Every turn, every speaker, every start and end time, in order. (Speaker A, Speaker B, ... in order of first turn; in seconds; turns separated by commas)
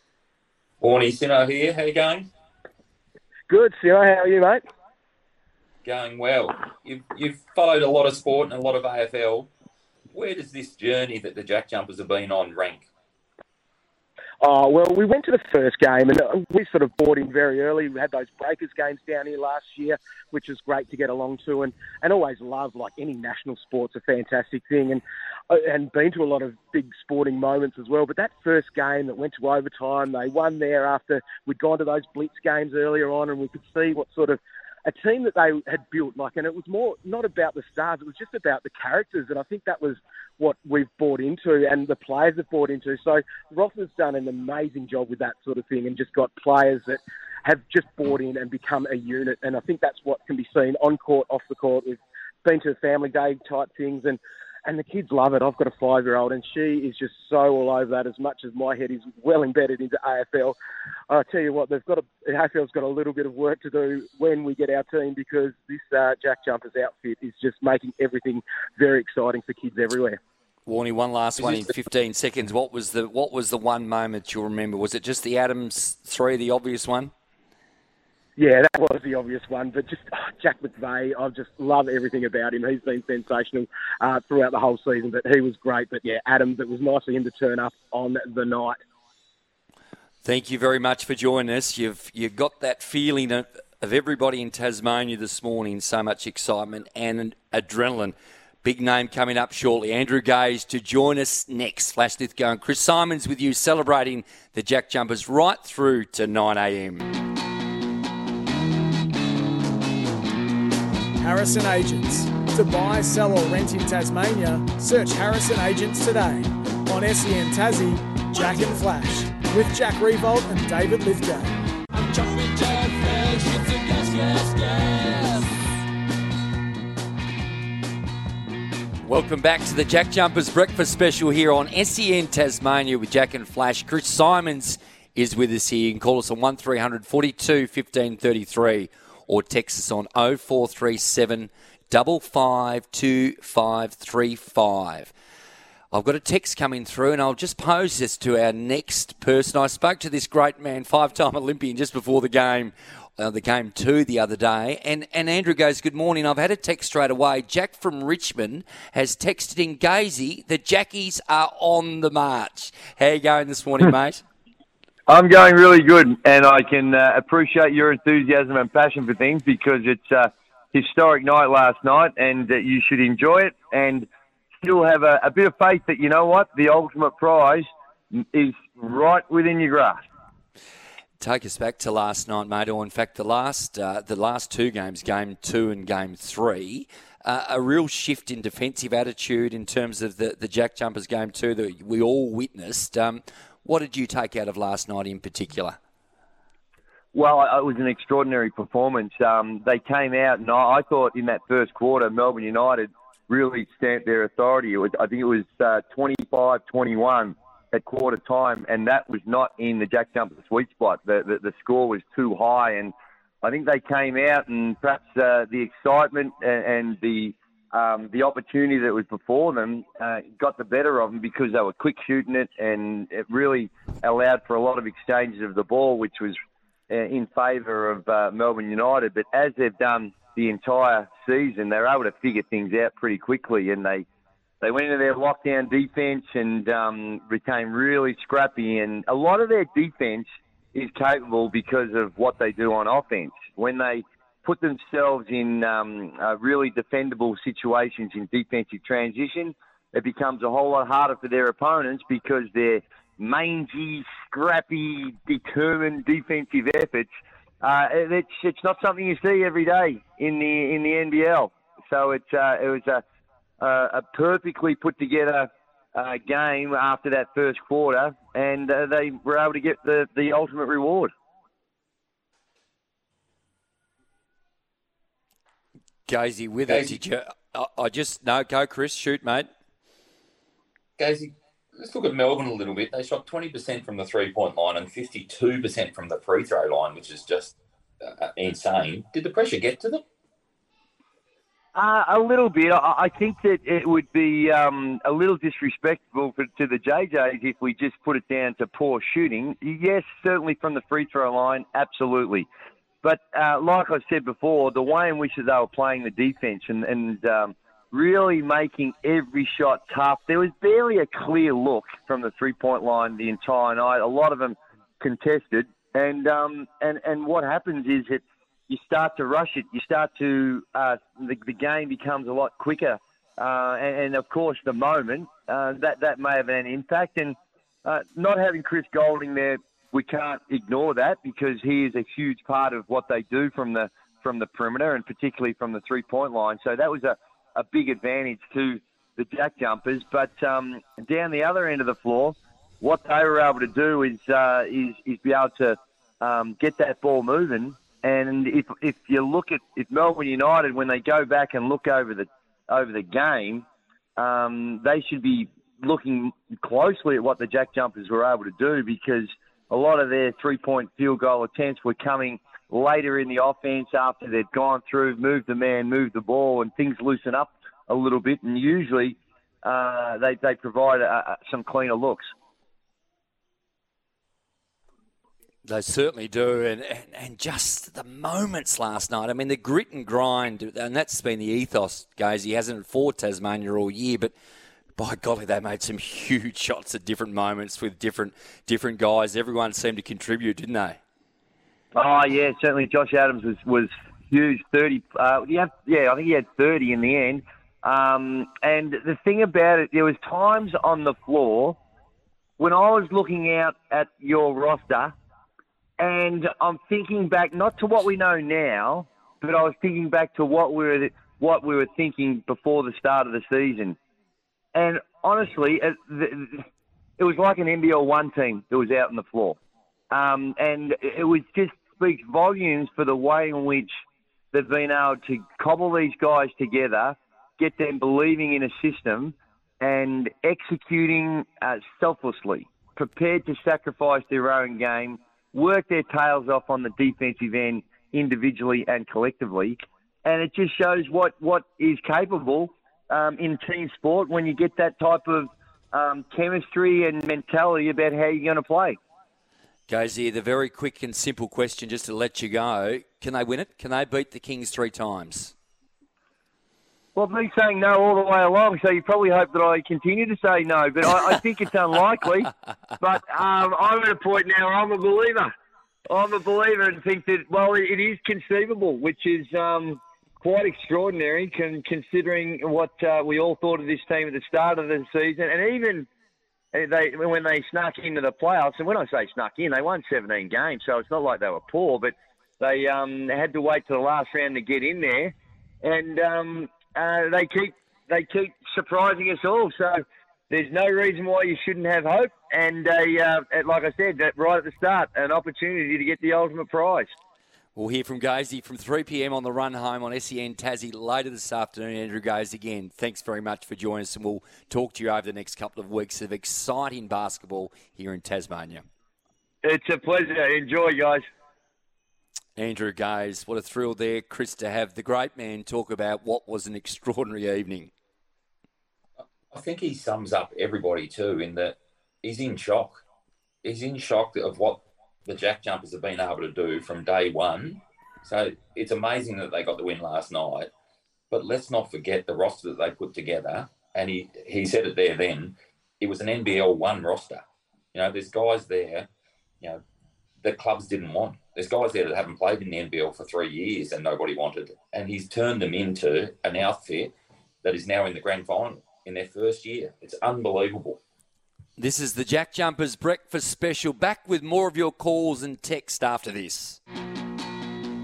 Speaker A: 0.8-2.3, Speaker B: 3.5-4.6, Speaker A: 5.8-9.5, Speaker A: 10.1-12.9, Speaker B: 14.4-60.5, Speaker B: 61.1-70.2, Speaker C: 70.7-77.1, Speaker B: 78.4-88.8, Speaker C: 90.2-107.1, Speaker D: 111.2-121.6, Speaker C: 129.0-145.1, Speaker C: 145.9-164.2, Speaker E: 165.1-174.1, Speaker E: 174.6-180.0, Speaker C: 181.2-195.8, Speaker E: 197.1-226.4, Speaker E: 226.9-234.1, Speaker E: 234.6-263.0, Speaker E: 263.6-271.1, Speaker C: 276.1-279.5, Speaker A: 276.7-276.9, Speaker A: 281.0-290.0, Speaker E: 291.7-302.5, Speaker E: 303.0-353.6, Speaker E: 354.2-372.3, Speaker C: 375.6-384.3, Speaker C: 385.0-391.0, Speaker E: 391.9-401.8, Speaker E: 402.6-405.1, Speaker E: 406.0-414.0, Speaker E: 414.7-416.6, Speaker E: 417.2-419.6, Speaker E: 420.1-423.9, Speaker E: 424.5-449.0, Speaker C: 449.9-455.5, Speaker E: 457.1-465.5, Speaker E: 466.1-476.1, Speaker E: 476.7-497.1, Speaker C: 497.8-508.8, Speaker E: 509.6-511.2, Speaker C: 512.6-517.9, Speaker A: 519.5-523.0, Speaker A: 523.6-530.7, Speaker A: 531.3-539.1, Speaker A: 540.4-551.0, Speaker C: 551.8-556.8